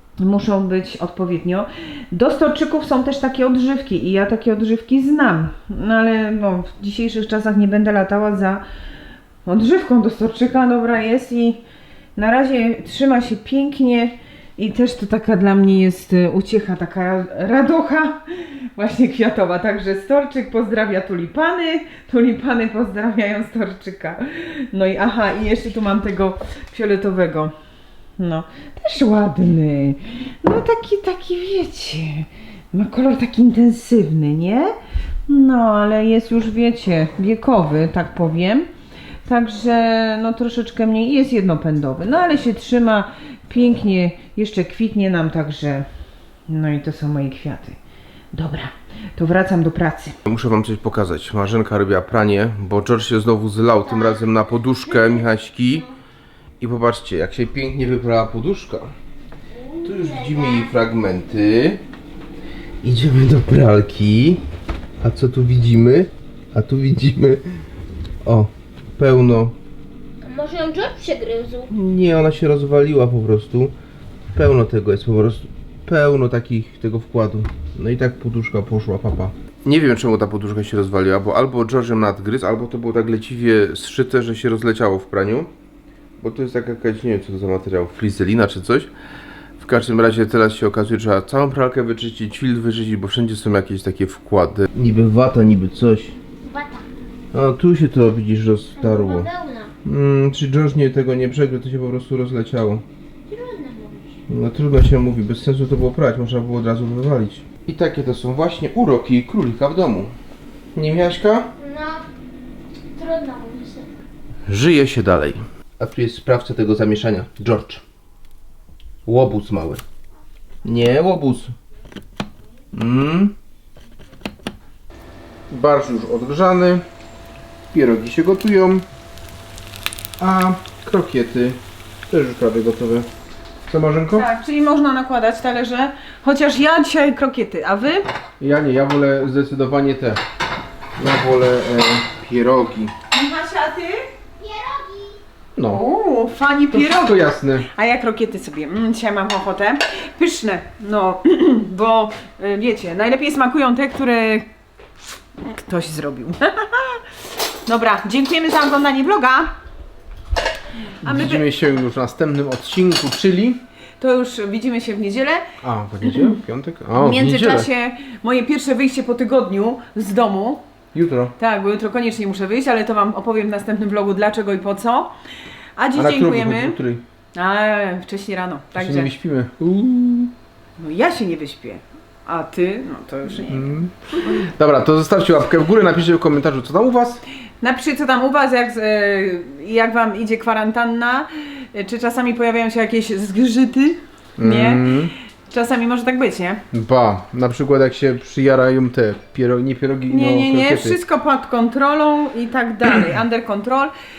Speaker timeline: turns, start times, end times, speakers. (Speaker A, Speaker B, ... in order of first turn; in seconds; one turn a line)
Speaker A: 0.2-8.6
Speaker A: 9.4-11.6
Speaker A: 12.2-27.5
Speaker A: 28.2-34.8
Speaker A: 35.3-38.7
Speaker A: 39.2-45.9
Speaker A: 46.5-47.8
Speaker A: 48.3-50.2
Speaker B: 50.3-55.9
Speaker B: 56.6-58.9
Speaker C: 59.6-60.7
Speaker B: 59.8-61.8
Speaker B: 62.8-64.4
Speaker B: 65.0-67.5
Speaker B: 68.2-69.6
Speaker C: 70.2-71.7
Speaker B: 71.7-73.7
Speaker B: 74.3-85.5
Speaker B: 86.2-88.9
Speaker B: 89.6-96.2
Speaker C: 96.5-96.9
Speaker B: 97.3-99.3
Speaker C: 98.8-99.7
Speaker B: 99.8-102.8
Speaker C: 103.3-104.2
Speaker B: 104.3-110.1
Speaker B: 110.8-111.5
Speaker C: 111.6-112.0
Speaker C: 112.9-113.9
Speaker B: 114.5-117.8
Speaker B: 119.1-119.8
Speaker B: 120.6-121.5
Speaker B: 122.7-123.3
Speaker D: 125.5-126.8
Speaker D: 127.7-128.8
Speaker D: 130.2-131.6
Speaker D: 132.1-133.1
Speaker D: 133.7-134.2
Speaker A: 134.1-138.1
Speaker D: 138.4-140.2
Speaker D: 141.0-142.9
Speaker A: 143.1-144.1
Speaker C: 144.4-145.2
Speaker D: 145.6-145.8
Speaker A: 145.7-154.5
Speaker D: 146.7-147.7
Speaker A: 155.4-157.1
Speaker A: 157.7-159.5
Speaker A: 161.0-161.5
Speaker D: 161.0-163.6
Speaker A: 164.0-165.5
Speaker D: 165.6-167.7
Speaker A: 166.0-166.4
Speaker A: 166.9-170.6
Speaker D: 170.9-171.3
Speaker A: 171.4-175.1
Speaker A: 175.8-176.8
Speaker D: 175.9-177.0
Speaker A: 177.3-179.1
Speaker D: 178.8-180.3
Speaker A: 180.8-183.8
Speaker D: 183.4-187.2
Speaker A: 187.6-196.6
Speaker D: 194.4-195.1
Speaker D: 196.7-201.0
Speaker A: 200.1-203.9